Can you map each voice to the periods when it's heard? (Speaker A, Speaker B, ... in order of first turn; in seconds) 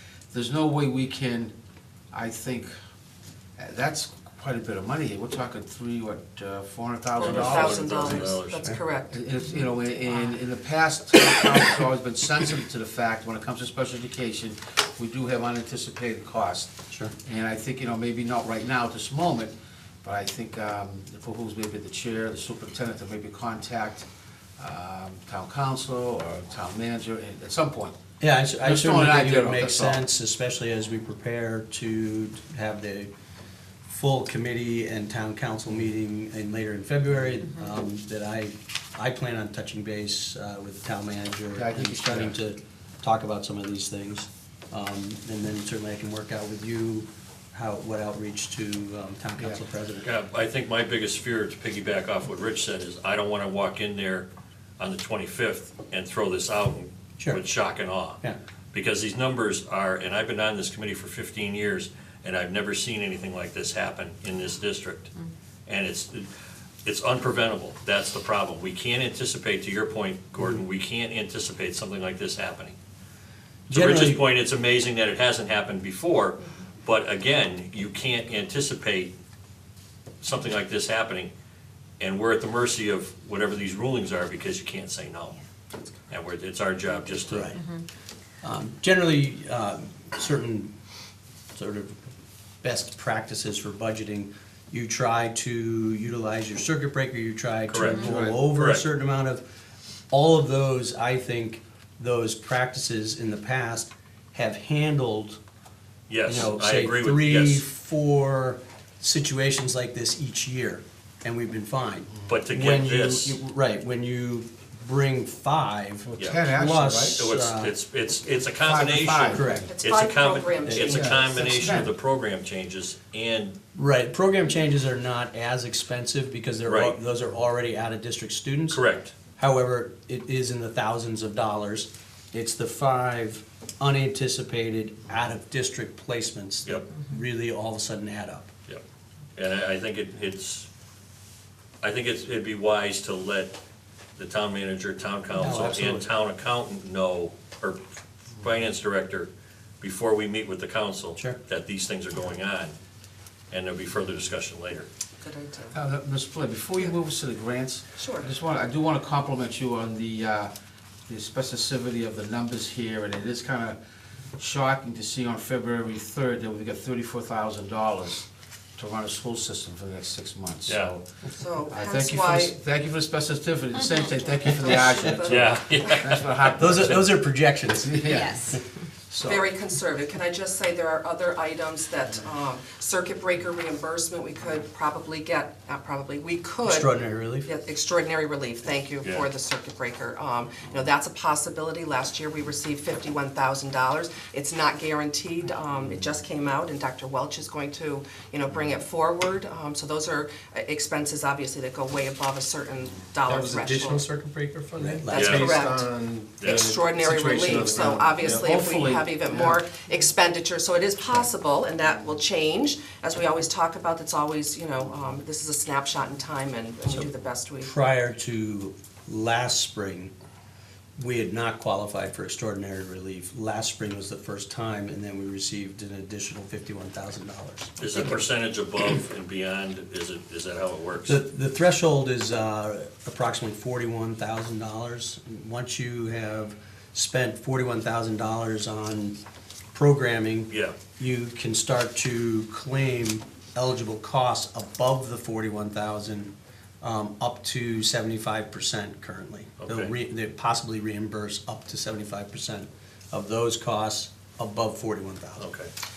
Speaker A: 0.3-1.5, 2.1-2.7, 3.6-8.2, 9.1-16.7, 17.2-19.5, 20.0-24.1, 24.6-27.9, 28.6-30.0, 41.5-42.4, 97.8-98.4, 116.0-117.2, 118.6-119.6, 120.8-121.9, 155.7-160.5, 161.1-163.8, 164.4-168.2, 168.8-171.0, 171.7-177.1, 177.9-178.5, 208.2-209.6
Speaker B: 7.1-9.2, 119.7-121.2, 155.2-155.7, 158.0-158.3, 171.3-172.5, 174.4-175.5, 179.2-186.9, 187.4-204.0, 205.1-205.8, 206.4-217.7, 227.9-228.2
Speaker C: 7.2-8.6, 50.0-54.3, 54.8-58.2, 58.7-65.1, 65.7-66.2, 66.8-72.7, 73.7-79.1, 80.2-81.3, 82.0-85.4, 86.1-87.5, 97.7-98.8, 106.1-107.6, 112.3-113.4, 117.2-123.5, 126.7-126.9, 128.7-129.1, 139.3-140.7, 141.8-143.6, 144.2-147.8, 148.4-149.3, 149.8-152.7, 153.5-154.9, 170.7-170.9, 175.2-177.1, 189.0-189.3, 205.1-205.5, 206.4-206.7, 227.8-231.2, 240.5-240.8, 249.6-249.9, 255.4-255.7
Speaker D: 28.2-33.1, 33.9-50.1, 73.7-74.2, 87.2-87.6, 88.4-90.7, 91.5-92.0, 92.6-99.4, 100.1-105.4, 106.2-117.7, 119.3-119.7, 120.7-121.9, 123.7-128.8, 129.4-138.5, 145.3-146.1, 176.6-178.6, 186.6-187.5, 203.2-205.5, 217.6-220.1, 221.0-228.2, 231.1-239.2, 239.7-255.4
Speaker E: 204.8-208.5